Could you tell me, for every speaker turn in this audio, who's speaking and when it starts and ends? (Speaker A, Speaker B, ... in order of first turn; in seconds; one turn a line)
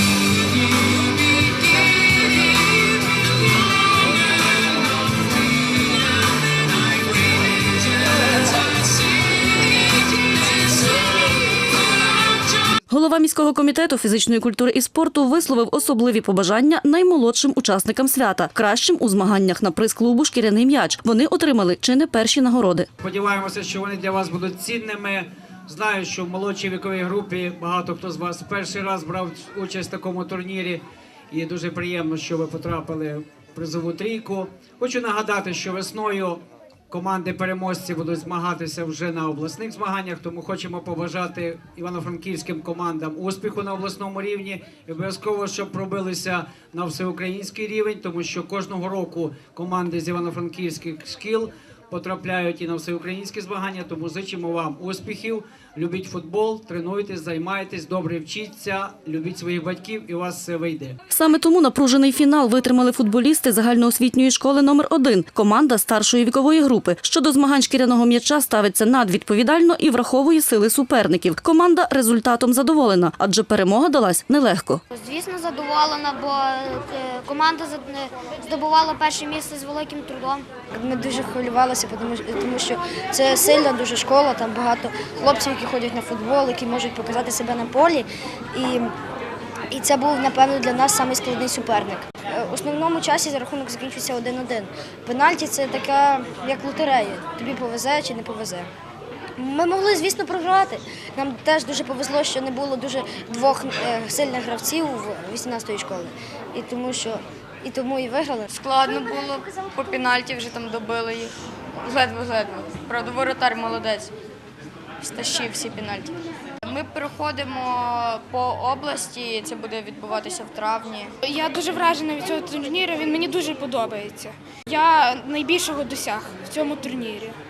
Speaker A: 12.9-22.9
Speaker B: 23.0-61.0
Speaker A: 61.1-74.8
Speaker C: 74.9-80.5
Speaker D: 80.7-88.9
Speaker D: 89.7-98.7
Speaker D: 99.4-108.5
Speaker E: 108.5-111.3
Speaker E: 111.8-114.1
Speaker E: 115.0-116.1
Speaker E: 116.6-121.1
Speaker F: 121.2-127.3